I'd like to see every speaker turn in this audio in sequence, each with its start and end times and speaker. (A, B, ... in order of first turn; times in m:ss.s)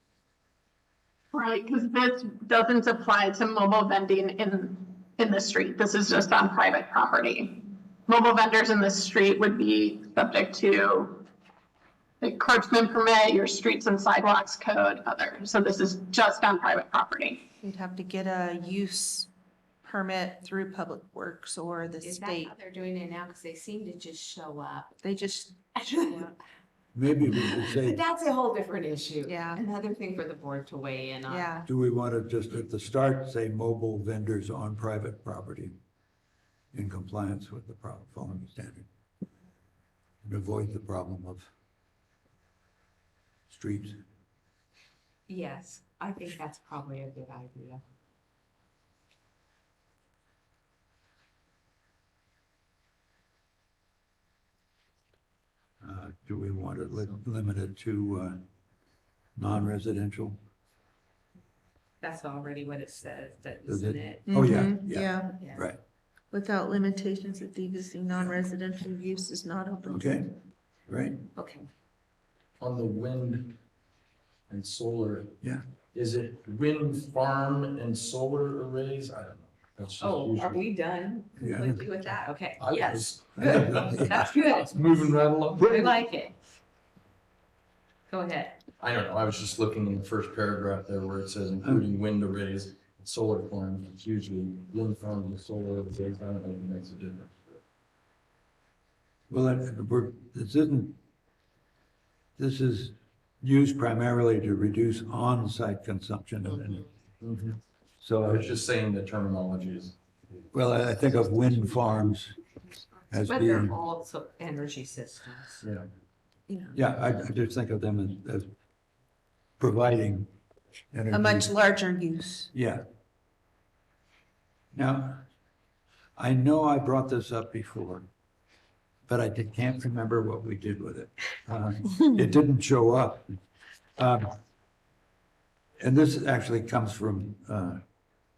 0:01.3-0:11.2 A
0:12.2-0:17.4 A
0:17.6-0:19.3 B
0:19.8-0:22.5 B
0:22.0-0:25.0 C
0:25.0-0:26.3 B
0:25.8-0:26.4 C
0:26.9-0:28.0 D
0:27.2-0:31.5 C
0:29.2-0:29.6 B
0:31.3-0:31.7 B
0:31.6-0:35.7 D
0:36.7-0:38.8 D
0:40.2-0:41.5 D
0:43.5-0:44.0 D
0:45.3-0:47.8 C
0:55.8-0:58.4 D
0:59.4-1:00.4 D
1:02.0-1:04.6 C
1:03.7-1:05.8 D
1:04.3-1:05.4 B
1:05.4-1:05.6 C
1:06.3-1:10.1 B
1:09.8-1:11.2 D
1:11.4-1:11.7 C
1:12.6-1:13.6 E
1:14.5-1:15.4 E
1:15.9-1:20.6 E
1:20.0-1:26.4 C
1:21.4-1:21.8 D
1:22.6-1:25.9 E
1:23.4-1:24.3 D
1:25.7-1:25.9 D
1:28.1-1:28.6 C
1:28.8-1:37.6 E
1:39.3-1:41.0 D
1:42.4-1:46.8 D
1:46.5-1:46.8 C
1:47.2-1:47.6 E
1:48.0-1:48.6 D
1:48.2-1:49.9 E
1:50.5-1:52.4 D
1:53.1-1:53.8 D
1:53.2-1:55.6 C
1:56.7-1:58.5 D
1:59.6-2:00.3 D
2:00.9-2:01.5 D
2:01.1-2:02.5 B
2:02.5-2:02.8 D
2:04.7-2:05.2 D
2:06.2-2:08.1 D
2:09.1-2:13.4 D
2:14.0-2:14.3 D
2:15.8-2:17.8 D